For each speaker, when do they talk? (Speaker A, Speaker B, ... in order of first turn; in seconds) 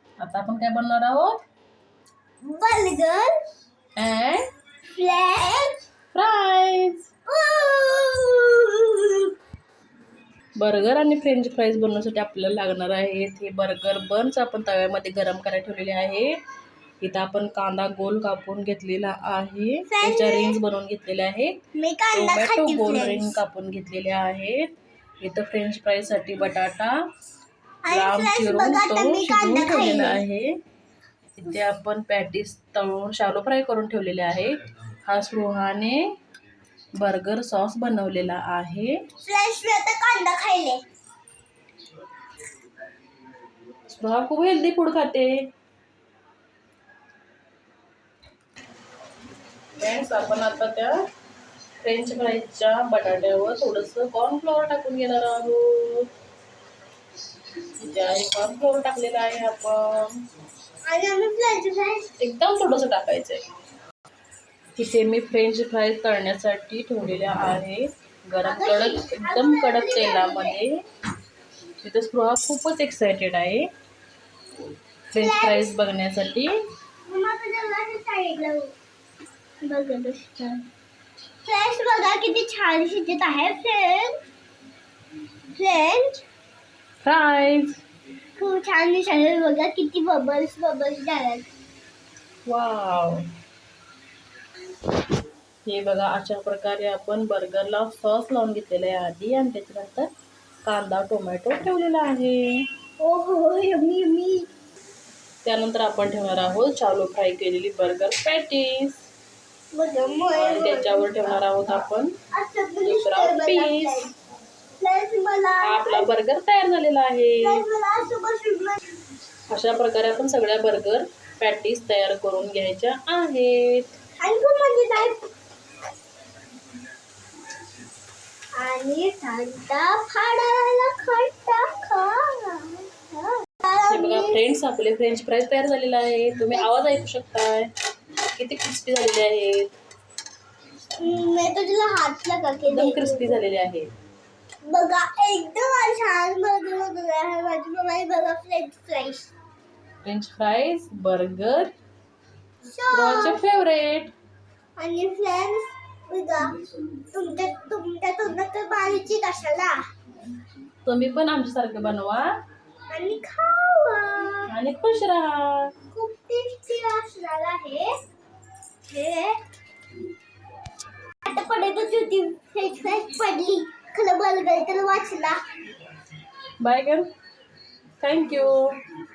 Speaker A: 0.2-1.4, 4.0-4.5, 6.1-7.1, 10.6-16.4, 17.0-21.6, 22.1-24.6, 25.2-26.9, 27.9-30.5, 31.4-36.0, 37.0-39.0, 43.9-45.4, 49.8-51.0, 51.8-56.1, 57.8-60.1, 62.2-63.4, 64.8-70.8, 71.8-73.7, 75.1-76.6, 87.0-87.8, 92.5-93.2, 95.7-100.1, 100.6-102.7, 105.4-109.1, 110.3-112.2, 112.8-114.1, 115.6-117.6, 119.5-124.0, 133.9-137.7, 138.4-139.7, 142.7-143.9, 150.0-151.7, 152.9-154.1, 160.8-162.3, 164.5-165.7, 176.6-177.1, 178.0-178.8
Speaker B: 2.4-3.3, 5.0-5.8, 7.3-9.3, 19.9-20.6, 21.7-23.3, 27.8-30.2, 39.2-40.8, 60.9-62.1, 68.4-70.6, 75.2-75.8, 77.1-78.7, 79.6-80.6, 81.4-84.2, 85.6-86.2, 88.4-91.5, 103.0-104.5, 109.7-111.3, 112.3-114.1, 114.8-116.1, 117.4-118.8, 124.2-125.3, 128.6-134.4, 141.0-143.4, 144.7-149.3, 152.7-153.4, 154.8-159.8, 162.9-164.5, 165.9-167.9, 168.9-169.4, 171.2-175.4